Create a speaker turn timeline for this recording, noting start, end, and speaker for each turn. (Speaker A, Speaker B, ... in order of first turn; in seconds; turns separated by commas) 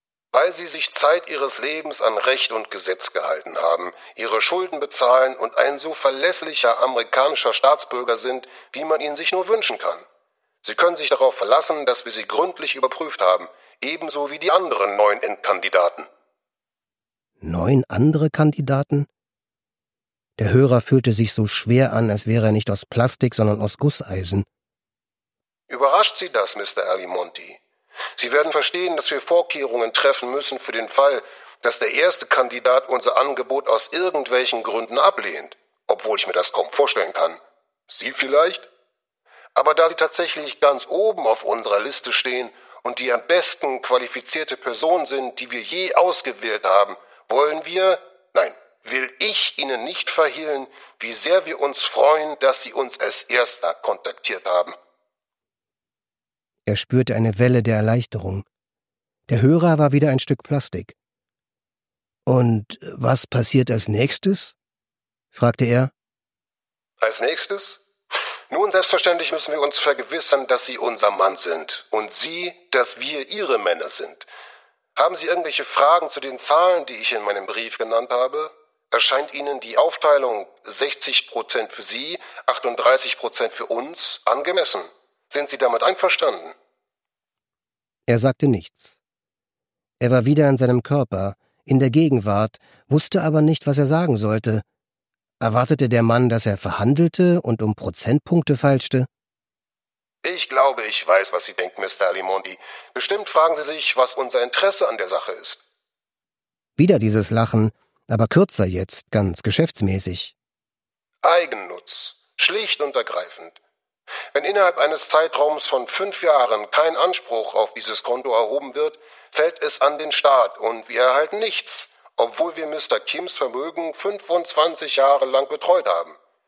Speaker A: 0.3-10.1, Speaker A: 10.6-16.1, Speaker B: 17.4-19.1, Speaker B: 20.4-24.5, Speaker A: 25.7-27.6, Speaker A: 28.2-38.7, Speaker A: 39.5-54.8, Speaker B: 56.7-58.5, Speaker B: 59.3-61.0, Speaker B: 62.3-64.5, Speaker B: 65.3-65.9, Speaker A: 67.0-67.8, Speaker A: 68.5-74.3, Speaker A: 75.0-86.5, Speaker B: 88.1-89.0, Speaker B: 90.0-94.6, Speaker B: 95.4-99.1, Speaker A: 100.2-105.6, Speaker B: 106.8-110.3, Speaker A: 111.2-113.6, Speaker A: 114.3-126.2